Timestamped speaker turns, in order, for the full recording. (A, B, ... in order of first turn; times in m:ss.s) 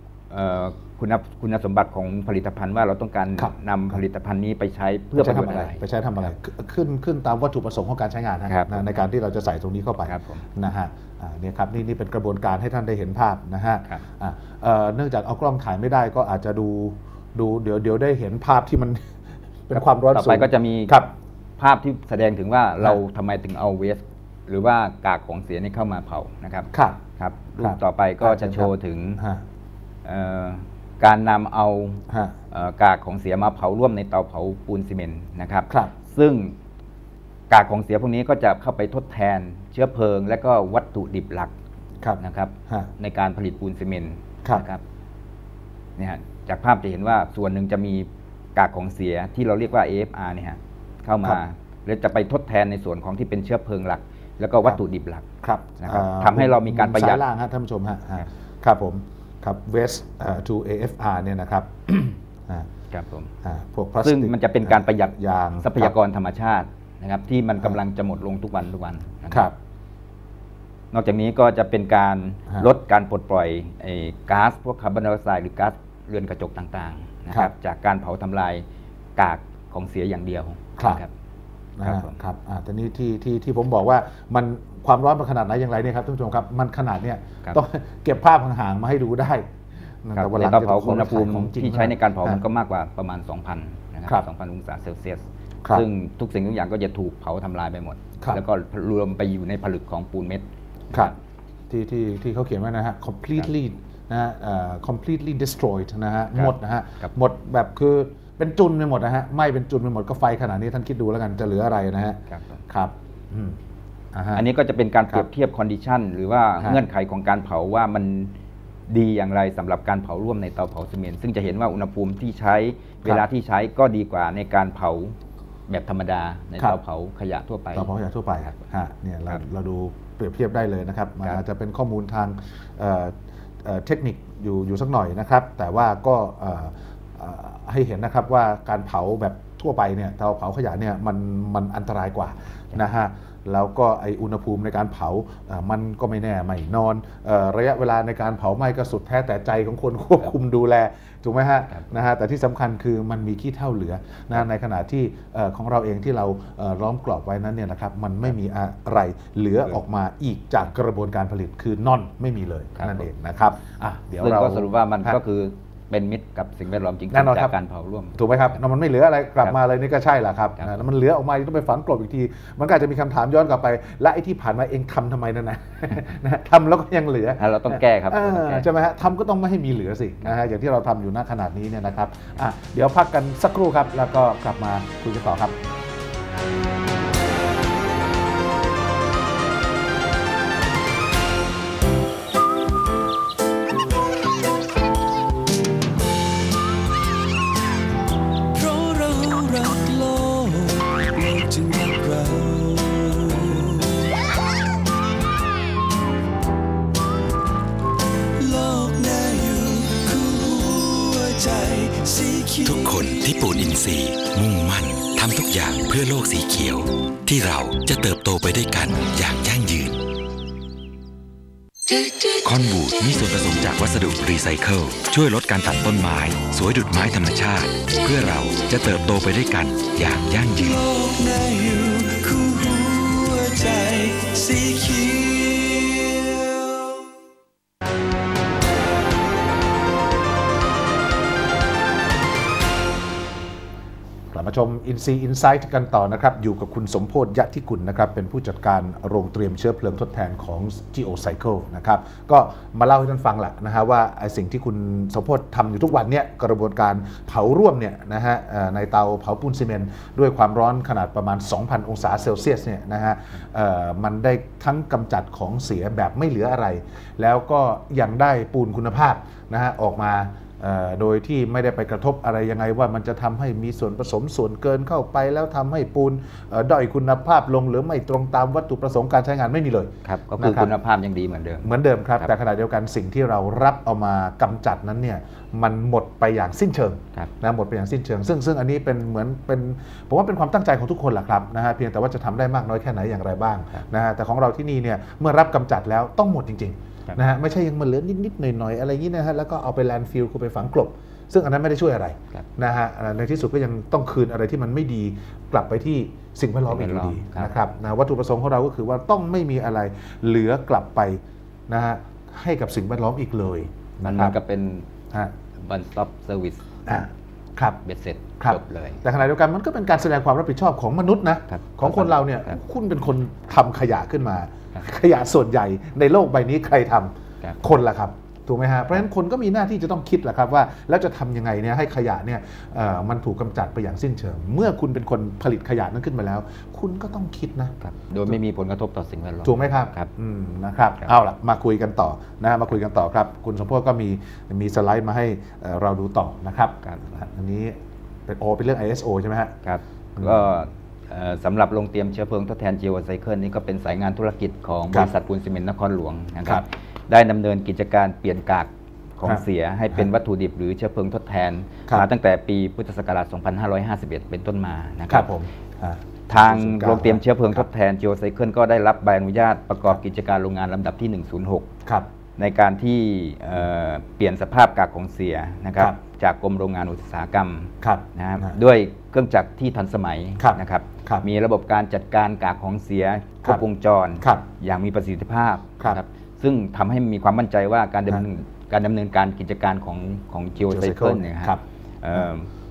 0:00.3-0:06.3 A
0:03.4-0:04.0 B
0:05.2-0:21.1 B
0:08.5-0:09.0 A
0:10.0-0:10.4 A
0:19.8-0:21.0 A
0:21.6-0:29.2 A
0:26.7-0:27.0 B
0:27.6-0:29.4 B
0:30.0-0:36.6 A
0:32.1-0:32.3 B
0:37.5-0:41.5 A
0:42.0-0:42.9 B
0:42.2-0:44.8 A
0:46.0-0:55.2 A
0:55.4-1:02.7 B
0:55.8-0:57.2 A
1:02.9-1:03.3 A
1:03.4-1:05.9 B
1:04.0-1:09.5 A
1:10.9-1:18.6 A
1:19.2-1:21.1 A
1:21.8-1:29.5 B
1:21.8-1:22.2 A
1:30.0-1:32.4 B
1:30.1-1:41.2 A
1:41.7-1:53.6 B
1:46.3-1:47.1 A
1:52.3-1:52.6 A
1:54.1-1:54.4 B
1:54.3-1:58.3 A
1:58.9-2:05.2 A
2:05.7-2:07.9 A
2:07.7-2:45.2 B
2:42.8-2:43.1 A
2:44.2-2:48.2 A
2:47.1-2:47.5 B
2:48.1-3:05.6 B
2:57.4-2:58.7 A
3:18.5-3:24.1 C
3:28.4-3:32.9 C
3:32.6-3:40.0 D
3:42.3-3:50.8 D
3:50.6-3:57.0 C
4:04.3-4:40.7 B
4:40.0-4:42.3 A
4:41.6-5:14.3 B
5:06.7-5:07.5 A
5:14.0-5:14.9 A
5:15.6-5:16.6 A
5:16.8-5:17.8 B
5:17.8-5:19.0 A
5:18.4-5:37.7 B
5:21.5-5:22.6 A
5:37.8-5:40.1 A
5:39.4-5:49.5 B
5:49.6-6:05.3 A
5:50.2-5:50.4 B
6:05.1-6:07.6 B
6:06.3-6:11.7 A
6:12.4-6:32.5 A
6:17.8-6:18.6 B
6:20.4-6:21.2 B
6:30.7-6:31.6 B